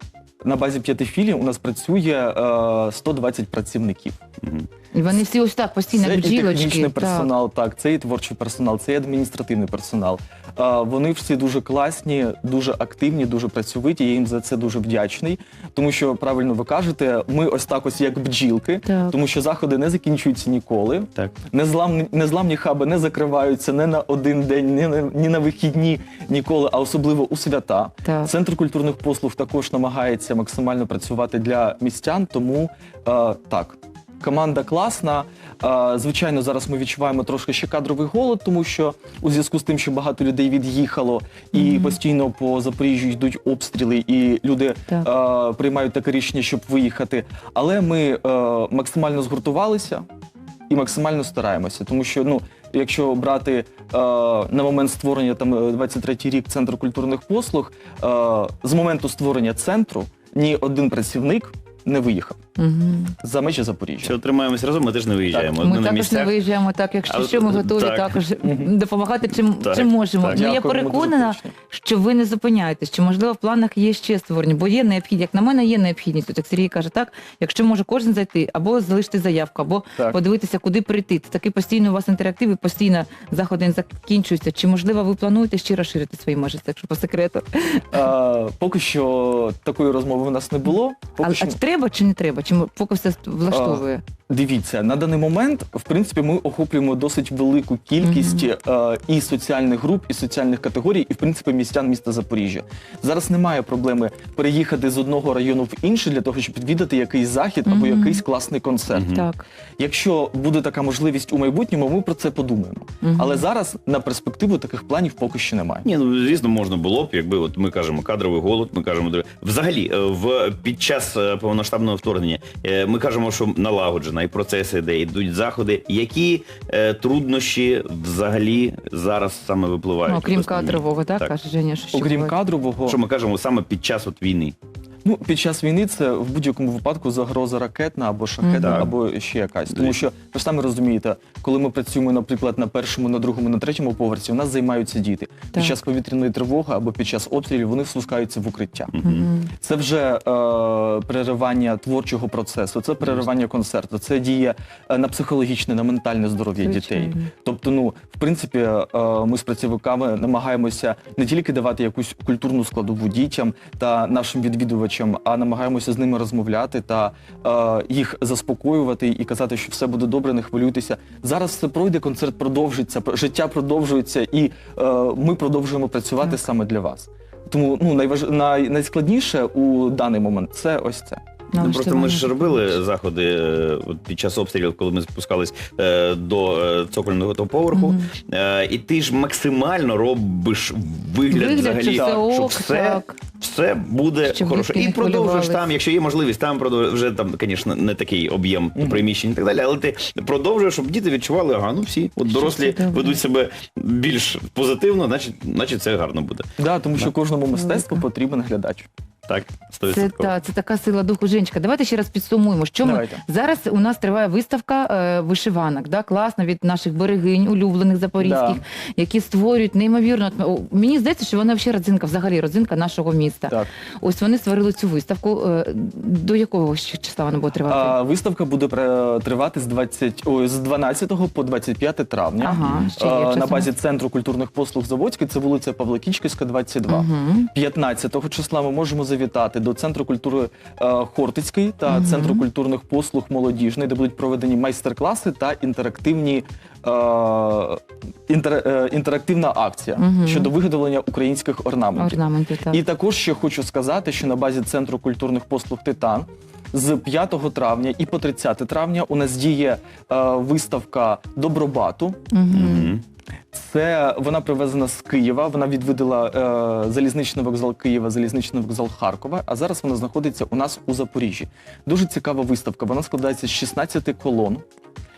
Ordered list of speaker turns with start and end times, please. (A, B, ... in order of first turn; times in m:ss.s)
0:00.4-0:04.2 A
0:04.4-0:04.7 B
0:04.9-0:07.3 C
0:05.9-0:50.0 A
0:18.8-0:19.2 C
0:28.0-0:28.3 C
0:41.5-0:42.0 C
0:50.7-1:02.4 A
1:02.6-1:03.1 C
1:03.2-1:04.1 A
1:04.0-1:06.4 B
1:05.3-1:05.5 A
1:05.6-1:28.0 C
1:07.0-1:08.1 B
1:08.4-1:08.7 A
1:09.6-1:10.5 B
1:10.3-1:11.5 A
1:27.9-1:31.6 A
1:31.2-1:34.0 C
1:33.5-1:49.1 A
1:38.0-1:38.5 C
1:47.6-1:48.2 C
1:48.9-1:49.3 B
1:49.1-1:49.4 C
1:49.8-1:55.8 A
1:53.0-1:53.4 C
1:55.8-2:11.3 B
2:10.0-2:12.4 C
2:11.9-2:13.0 A
2:12.8-2:14.5 B
2:15.0-2:28.9 A
2:18.4-2:18.8 C
2:18.6-2:18.9 B
2:19.7-2:20.0 B
2:28.9-2:29.2 B
2:29.0-2:29.5 C
2:29.6-3:01.2 A
2:36.6-2:37.3 C
3:01.5-3:02.7 C
3:01.6-3:26.4 B
3:07.7-3:08.1 C
3:11.3-3:13.2 C
3:11.9-3:12.2 A
3:14.2-3:15.7 C
3:18.7-3:19.1 A
3:22.3-3:23.2 C
3:26.6-3:28.9 A
3:27.5-3:28.0 C
3:29.3-3:30.3 B
3:29.8-3:48.0 C
3:32.8-3:33.2 A
3:38.2-3:38.6 A
3:47.7-4:12.2 A
3:52.4-3:53.7 C
3:52.6-3:52.9 B
3:56.9-3:57.5 C
4:01.9-4:02.4 C
4:10.0-4:10.5 C
4:12.0-4:12.8 C
4:12.7-4:22.2 A
4:22.3-4:22.9 C
4:22.5-4:23.0 B
4:23.5-4:34.6 A